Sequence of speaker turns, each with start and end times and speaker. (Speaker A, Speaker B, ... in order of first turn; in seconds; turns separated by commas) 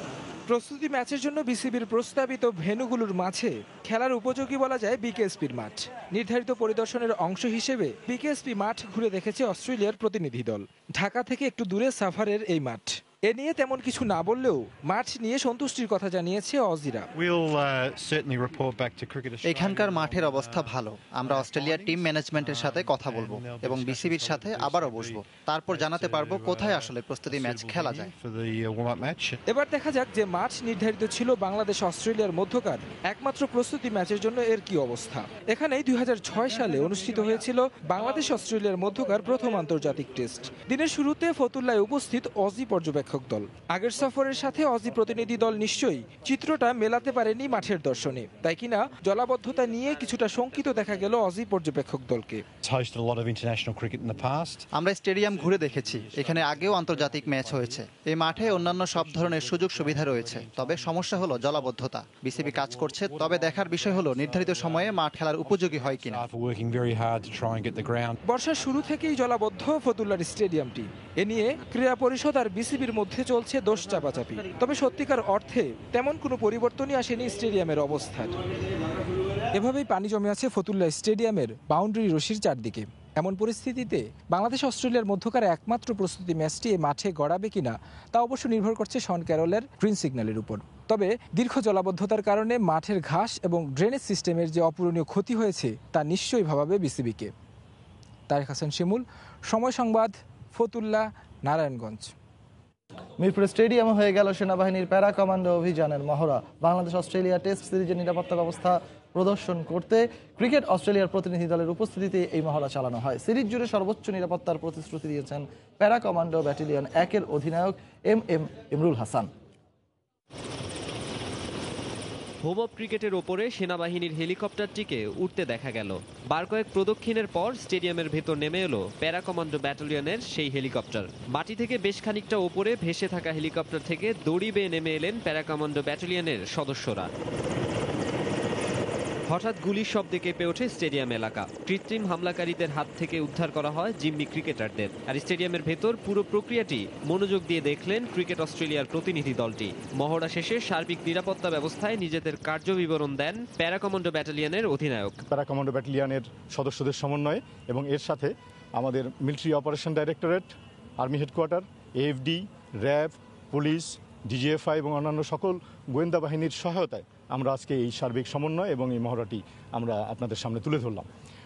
Speaker A: 0.5-17.1, Speaker B: 17.2-29.4, Speaker C: 19.4-28.1, Speaker A: 29.5-52.4, Speaker B: 52.6-54.7, Speaker C: 54.7-66.3, Speaker B: 55.2-68.2, Speaker A: 68.3-78.4, Speaker A: 79.5-97.3, Speaker A: 98.3-102.1, Speaker D: 103.2-119.3, Speaker E: 122.5-137.1, Speaker E: 139.3-155.2, Speaker F: 155.3-171.1